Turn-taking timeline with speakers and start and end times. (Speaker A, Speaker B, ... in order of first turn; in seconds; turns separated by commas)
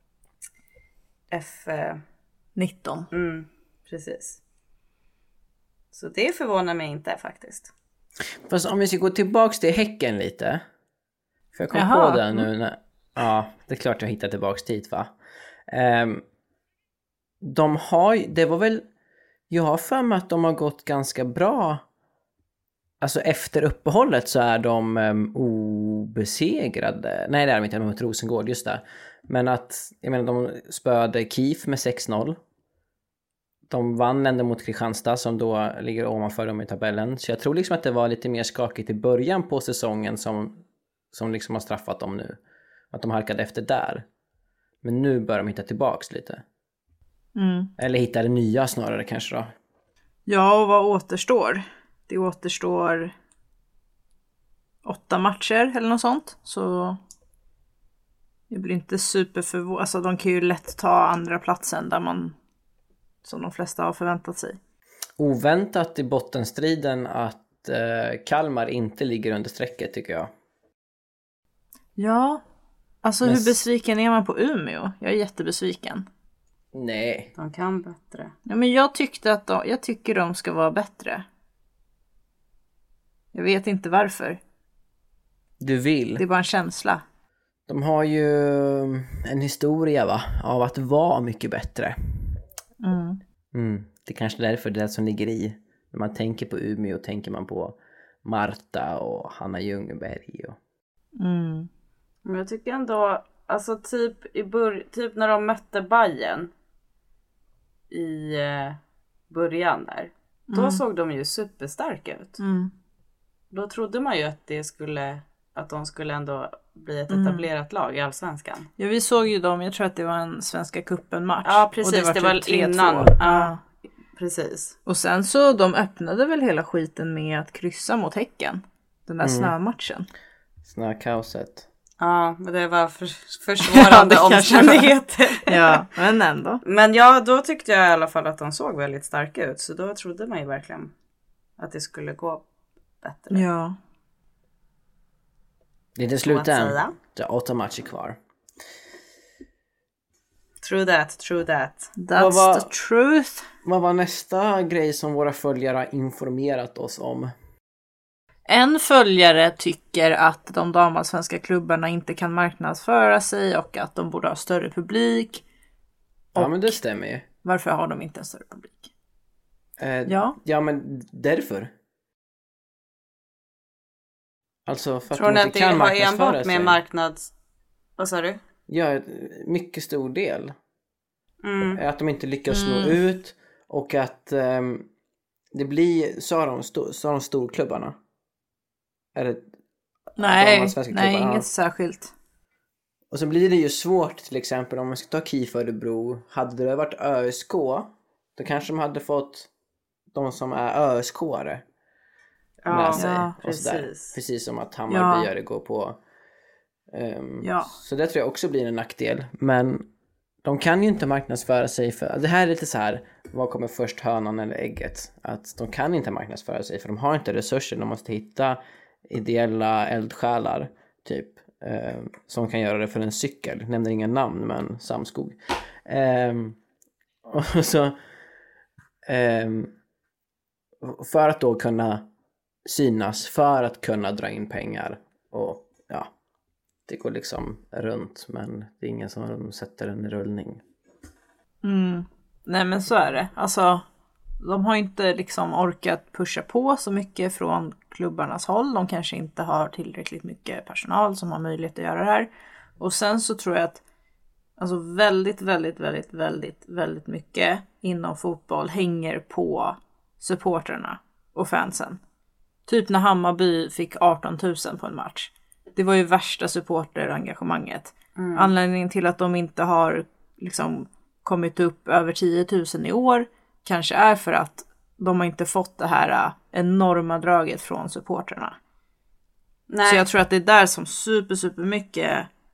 Speaker A: 1.3-2.0, Speaker B: 2.5-3.1, Speaker A: 3.1-4.4, Speaker A: 5.9-7.7, Speaker C: 8.4-10.6, Speaker C: 11.5-15.1, Speaker B: 11.7-12.5, Speaker C: 15.7-16.2, Speaker C: 17.4-18.8, Speaker C: 19.5-21.8, Speaker C: 23.0-32.4, Speaker C: 33.7-40.6, Speaker C: 41.1-42.4, Speaker C: 42.9-44.0, Speaker C: 44.8-46.4, Speaker B: 47.4-47.7, Speaker C: 47.8-49.5, Speaker B: 50.3-53.1, Speaker B: 54.8-57.0, Speaker B: 58.5-62.3, Speaker B: 63.2-64.6, Speaker C: 65.2-70.3, Speaker B: 72.0-72.4, Speaker B: 73.0-76.0, Speaker C: 73.2-73.6, Speaker C: 76.7-77.3, Speaker A: 77.4-78.3, Speaker B: 78.5-81.2, Speaker B: 83.3-84.4, Speaker C: 85.6-86.2, Speaker B: 86.2-87.0, Speaker C: 87.7-92.4, Speaker B: 92.8-93.2, Speaker C: 93.5-100.6, Speaker B: 101.2-101.7, Speaker A: 102.2-106.5, Speaker A: 107.9-108.8, Speaker A: 109.3-112.4, Speaker B: 110.5-110.8, Speaker B: 112.4-112.7, Speaker A: 113.5-118.7, Speaker B: 117.1-117.5, Speaker B: 118.8-123.6, Speaker A: 121.4-123.6, Speaker A: 124.2-124.8, Speaker B: 124.8-130.1, Speaker C: 129.2-129.5, Speaker C: 130.6-131.7, Speaker A: 132.0-135.8, Speaker B: 133.6-136.6, Speaker A: 136.6-140.9, Speaker A: 141.6-142.4, Speaker A: 143.0-143.4, Speaker B: 143.3-143.8, Speaker C: 146.0-148.2, Speaker A: 146.2-146.9, Speaker A: 150.6-151.9, Speaker B: 152.0-153.5, Speaker C: 152.1-152.7, Speaker C: 153.6-157.3, Speaker B: 158.5-165.4, Speaker B: 166.3-166.8, Speaker C: 166.3-167.2, Speaker B: 167.4-168.9, Speaker C: 169.8-171.7, Speaker B: 170.1-170.3, Speaker C: 174.7-176.8, Speaker A: 175.1-177.3, Speaker A: 178.0-178.4, Speaker C: 178.7-180.5, Speaker A: 181.4-181.8, Speaker C: 181.8-184.9, Speaker B: 182.5-183.0, Speaker C: 185.5-187.9, Speaker C: 189.1-189.5, Speaker B: 190.2-192.1, Speaker C: 190.2-191.5, Speaker C: 193.1-199.5, Speaker C: 200.1-201.6, Speaker A: 202.6-204.1, Speaker C: 202.7-206.0, Speaker B: 203.0-203.3, Speaker B: 204.9-205.3, Speaker C: 206.9-209.8, Speaker B: 207.4-207.7, Speaker C: 210.4-226.6, Speaker C: 227.2-228.0, Speaker C: 229.1-229.7, Speaker C: 230.8-232.1, Speaker C: 232.6-236.1, Speaker C: 236.9-240.6, Speaker B: 241.6-243.8, Speaker B: 244.4-253.8, Speaker B: 254.6-262.0, Speaker B: 262.7-278.6, Speaker A: 268.1-268.5, Speaker A: 279.7-280.1, Speaker B: 279.8-282.3